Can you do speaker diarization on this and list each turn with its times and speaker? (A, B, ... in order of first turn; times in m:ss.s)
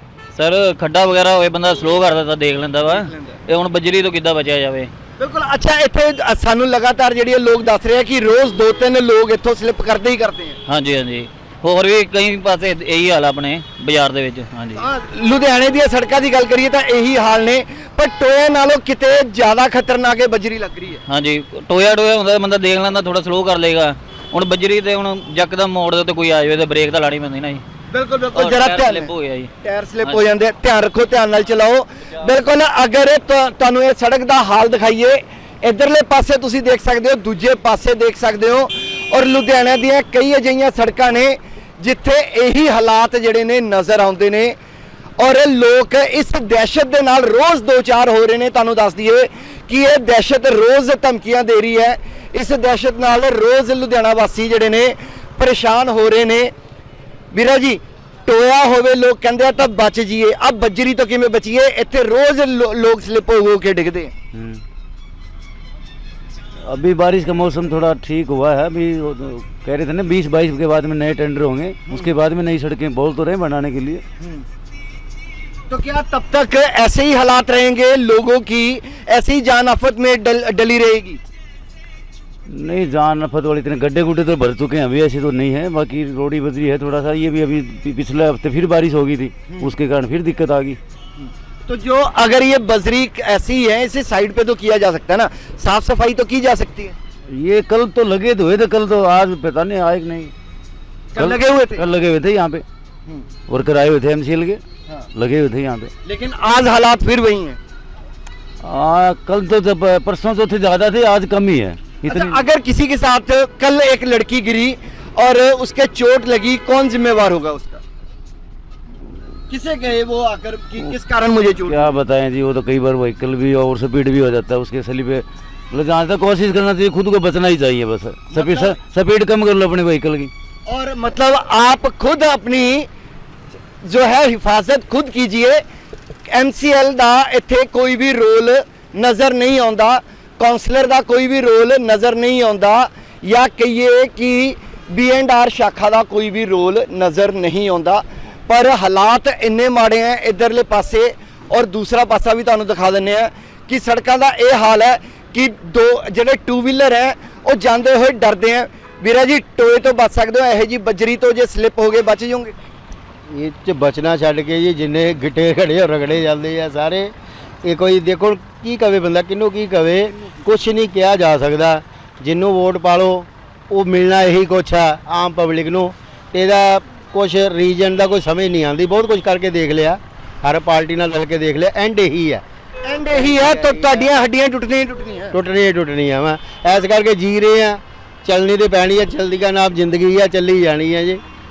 0:00.3-0:04.9 A
0:02.9-0:03.4 B
0:05.2-0:10.6 B
0:10.6-0:14.8 A
0:14.8-0:21.0 B
0:21.1-0:27.6 A
0:27.9-0:29.1 B
0:28.3-0:29.5 A
0:29.6-0:44.5 B
0:45.2-0:56.5 B
0:57.3-1:04.1 B
1:04.3-1:04.6 C
1:06.6-1:14.0 C
1:15.7-1:21.2 B
1:22.4-1:30.8 C
1:31.2-1:36.9 B
1:37.3-1:40.3 C
1:41.1-1:41.8 B
1:41.2-1:42.6 C
1:43.5-1:44.6 C
1:45.1-1:45.9 C
1:46.0-1:47.6 B
1:48.6-1:52.4 C
1:52.1-1:57.8 B
1:59.5-2:01.9 B
2:01.6-2:10.3 C
2:08.3-2:08.7 B
2:10.7-2:12.9 B
2:13.8-2:15.6 B
2:16.3-2:42.6 B
2:43.3-2:47.1 D
2:47.6-3:02.4 D
3:02.8-3:05.3 B
3:03.1-3:04.1 D
3:05.3-3:11.2 D